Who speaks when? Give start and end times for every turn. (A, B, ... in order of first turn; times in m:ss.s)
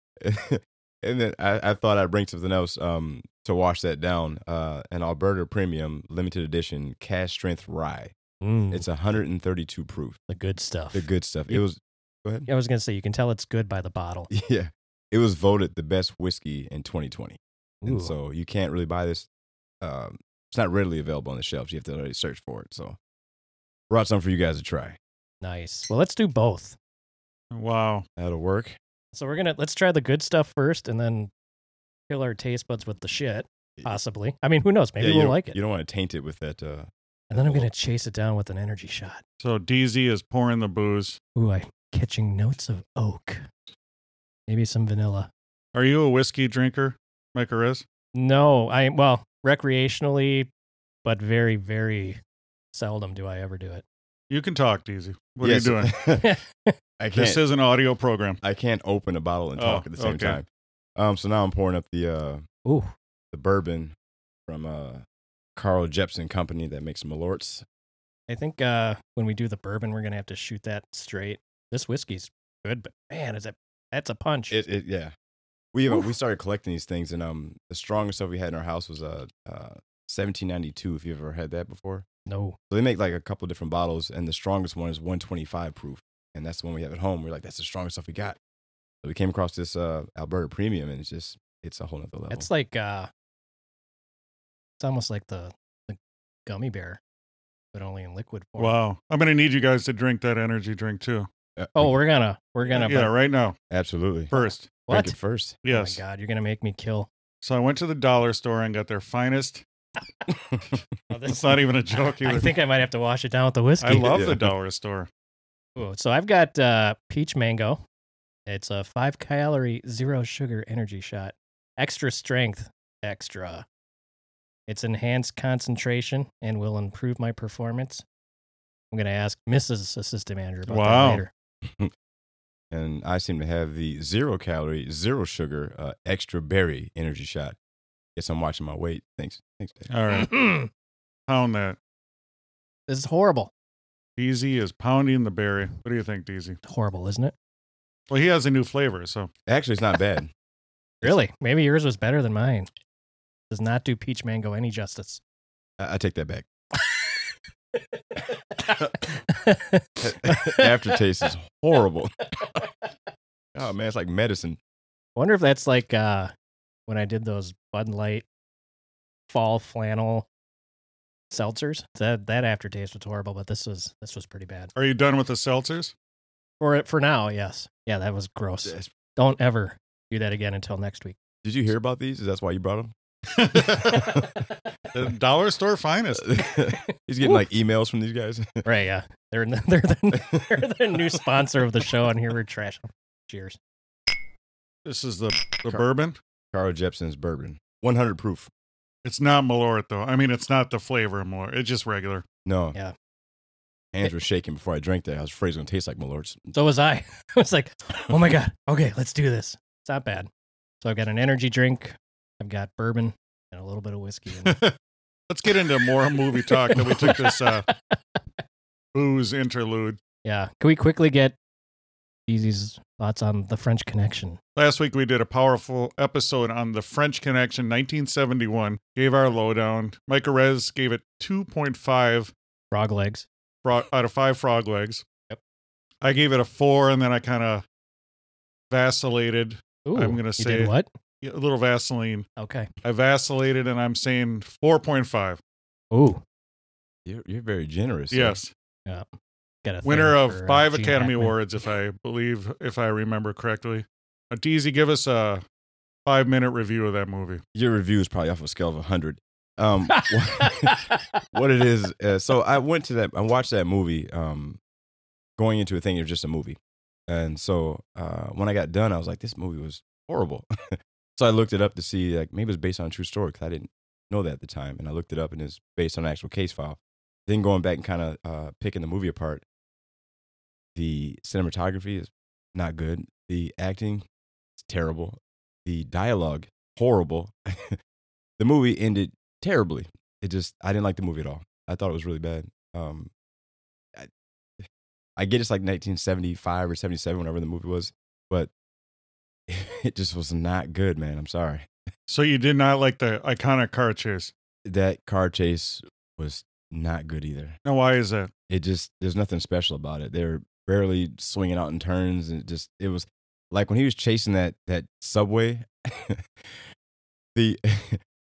0:00.2-0:08.2 A
0:08.4-0:08.8 B
0:08.7-0:10.2 A
0:10.3-0:11.6 B
0:10.9-0:12.5 A
0:12.5-0:14.3 B
0:14.3-0:19.3 A
0:17.8-0:18.1 B
0:19.8-0:23.0 A
0:23.9-0:25.0 A
0:25.4-0:26.8 B
0:27.5-0:28.0 C
0:28.2-0:28.8 A
0:29.1-0:31.3 B
0:32.1-0:35.6 B
0:35.0-0:37.7 A
0:37.3-0:39.2 B
0:39.4-0:41.2 C
0:41.4-0:43.4 B
0:44.5-0:45.3 B
0:45.7-0:47.8 C
0:48.2-0:50.5 B
0:51.0-0:52.2 B
0:52.7-0:53.8 B
0:54.3-0:55.9 C
0:55.4-0:56.4 A
0:56.2-0:56.8 B
0:57.0-0:57.4 A
0:57.2-0:58.4 C
0:58.4-1:00.5 A
0:59.6-1:00.4 C
1:01.0-1:02.4 A
1:02.6-1:02.9 B
1:03.3-1:04.0 A
1:04.5-1:05.0 A
1:05.6-1:07.6 A
1:08.3-1:14.6 B
1:14.5-1:15.1 A
1:15.7-1:22.1 A
1:22.3-1:22.6 B
1:22.7-1:28.4 A
1:29.0-1:32.5 A
1:32.3-1:33.1 B
1:34.8-1:37.0 B
1:37.7-1:38.7 B
1:38.6-1:41.3 C
1:41.6-1:41.9 A
1:41.8-1:43.1 B
1:42.7-1:43.6 C
1:43.7-1:44.3 A
1:44.3-1:44.7 C
1:44.3-1:45.2 B
1:44.9-1:45.6 A
1:45.6-1:46.0 C
1:45.7-1:47.1 B
1:47.4-1:49.6 C
1:50.3-1:50.8 A
1:51.1-1:54.1 B
1:51.3-1:52.5 C
1:53.8-1:55.1 C
1:53.9-1:54.5 A
1:55.8-1:57.8 B
1:58.5-2:03.6 B
2:04.7-2:08.0 B
2:08.9-2:11.3 B
2:10.7-2:11.2 C
2:11.6-2:11.9 A
2:12.7-2:17.6 A
2:18.2-2:19.9 A
2:19.9-2:20.4 C
2:20.1-2:20.7 B
2:21.3-2:21.8 C
2:22.9-2:23.5 B
2:24.2-2:26.6 C
2:26.6-2:27.3 B
2:28.1-2:29.3 C
2:29.5-2:30.3 A
2:31.0-2:32.7 B
2:33.5-2:35.2 B
2:35.8-2:36.5 A
2:38.1-2:40.7 B
2:40.0-2:42.6 A
2:43.6-2:44.6 A
2:45.2-2:46.3 B
2:46.9-2:48.3 B
2:49.3-2:50.3 B
2:51.3-2:54.7 B
2:54.8-2:55.9 C
2:56.6-3:01.2 B
3:01.4-3:02.9 A
3:03.3-3:04.1 C
3:03.6-3:04.3 A
3:04.9-3:06.3 C
3:06.2-3:08.6 A
3:08.6-3:13.6 B
3:10.1-3:10.6 A
3:14.8-3:16.2 C
3:16.5-3:18.5 A
3:19.0-3:22.2 C
3:22.4-3:22.8 A
3:23.9-3:26.5 A
3:26.5-3:30.3 B
3:30.8-3:34.6 B
3:34.4-3:34.8 C
3:35.3-3:37.7 C
3:36.4-3:38.0 B
3:38.9-3:40.0 C
3:40.2-3:41.4 B
3:42.3-3:44.4 B
3:44.6-3:52.3 C
3:52.7-3:53.3 B
3:53.6-3:55.0 C
3:56.0-3:57.6 C
3:58.7-4:02.3 C
3:59.9-4:00.9 B
4:02.4-4:02.7 B
4:02.8-4:05.4 C
4:05.9-4:06.2 B
4:07.0-4:08.4 A
4:08.1-4:08.5 C
4:09.6-4:11.4 B
4:09.8-4:15.4 C
4:16.1-4:17.4 C
4:17.6-4:24.6 A
4:19.9-4:21.2 B
4:25.4-4:39.4 A
4:40.8-4:47.8 A
4:48.4-4:53.1 A
4:54.0-4:58.5 A
4:59.5-5:01.7 A
5:02.1-5:04.3 C
5:04.7-5:07.6 A
5:07.7-5:08.3 C
5:08.5-5:16.7 A
5:17.4-5:18.0 A